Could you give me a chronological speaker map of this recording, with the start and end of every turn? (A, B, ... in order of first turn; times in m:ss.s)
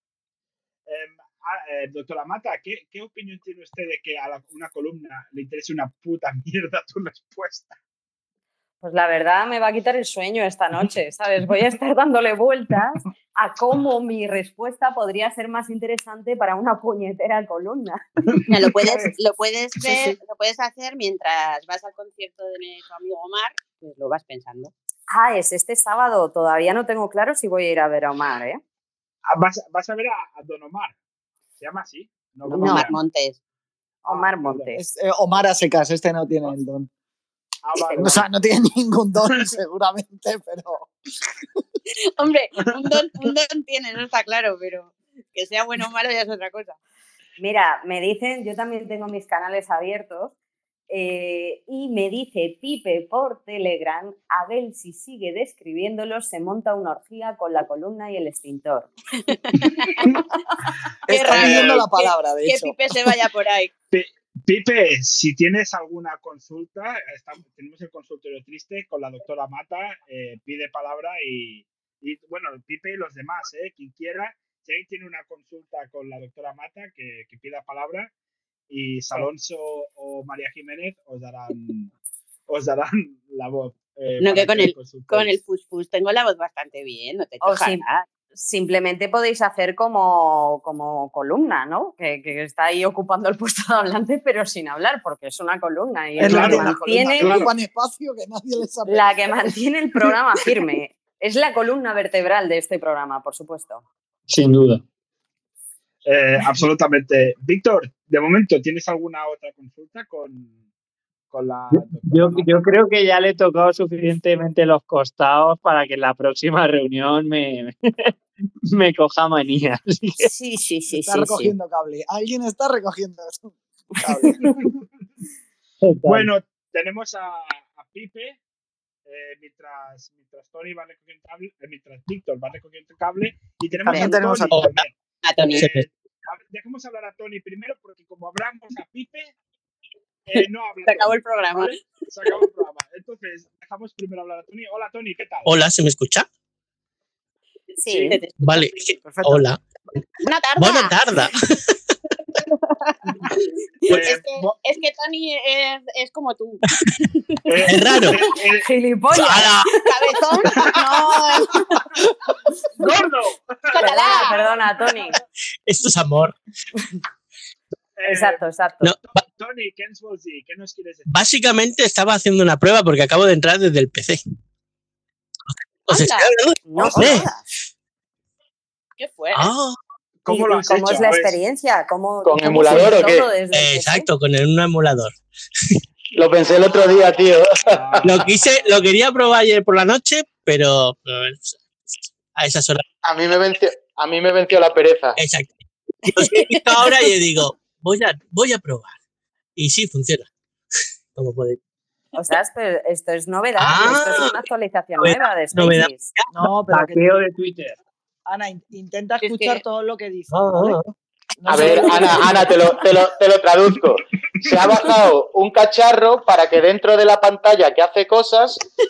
0:00.9-0:07.8 A
0:08.8-0:18.0 B
0:18.5-0:24.7 C
0:25.1-0:28.6 B
0:29.3-0:31.0 A
0:31.6-0:33.0 A
0:32.5-0:33.4 C
0:32.6-0:32.9 B
0:34.0-0:34.8 B
0:34.1-0:34.7 A
0:34.7-0:36.9 D
0:37.6-0:38.3 A
0:37.8-0:38.1 B
0:38.0-0:40.9 D
0:42.2-0:46.8 C
0:47.4-0:50.3 B
0:50.9-0:58.9 B
0:59.3-0:59.9 C
1:01.1-1:03.1 D
1:01.1-1:03.7 C
1:01.3-1:01.8 A
1:03.9-1:18.1 A
1:18.7-1:21.9 A
1:22.5-1:25.3 A
1:24.2-1:28.1 C
1:27.4-1:27.8 B
1:28.4-1:37.4 B
1:36.2-1:39.5 D
1:36.2-1:37.5 A
1:38.9-1:43.8 B
1:44.3-1:44.8 E
1:46.0-1:50.6 A
1:51.3-1:52.7 A
1:51.7-1:58.1 E
1:58.8-2:00.3 E
2:00.2-2:01.5 B
2:00.9-2:04.5 D
2:05.8-2:06.3 E
2:06.1-2:08.4 A
2:09.0-2:14.9 A
2:13.8-2:14.6 D
2:14.5-2:14.8 F
2:15.2-2:15.7 C
2:15.5-2:15.9 F
2:15.5-2:19.3 A
2:20.3-2:25.6 A
2:20.4-2:21.8 C
2:25.4-2:26.3 F
2:27.8-2:28.2 B
2:27.8-2:28.7 C
2:28.4-2:29.6 F
2:29.0-2:29.5 D
2:30.2-2:31.0 C
2:30.6-2:31.7 F
2:32.8-2:36.6 C
2:33.9-2:34.5 A
2:37.5-2:38.7 A
2:37.6-2:38.2 F
2:38.6-2:39.6 B
2:39.1-2:39.7 F
2:39.8-2:41.8 C
2:42.8-2:45.0 A
2:43.7-2:44.4 C
2:43.8-2:45.2 B
2:45.6-2:46.4 F
2:48.0-2:48.4 A
2:48.1-2:48.9 B
2:49.0-2:51.1 A
2:51.1-2:54.2 F
2:55.9-2:56.3 C
2:55.9-2:57.3 F
2:56.7-2:57.4 B
2:59.0-2:59.5 C
2:59.4-2:59.8 F
3:00.2-3:01.4 A
3:00.3-3:04.1 B
3:02.2-3:03.3 G
3:03.5-3:05.2 F
3:06.1-3:08.0 G
3:07.7-3:08.9 A
3:08.0-3:11.6 F
3:12.4-3:12.8 F
3:13.0-3:15.2 G
3:15.2-3:19.0 F
3:16.3-3:17.1 C
3:19.6-3:20.3 F
3:21.1-3:21.6 F
3:22.1-3:26.1 B
3:23.6-3:24.4 F
3:25.0-3:26.2 F
3:26.3-3:27.0 D
3:26.7-3:27.8 E
3:28.3-3:30.8 D
3:29.2-3:29.6 C
3:30.3-3:30.9 F
3:31.4-3:32.7 D
3:31.5-3:38.6 G
3:31.6-3:31.9 F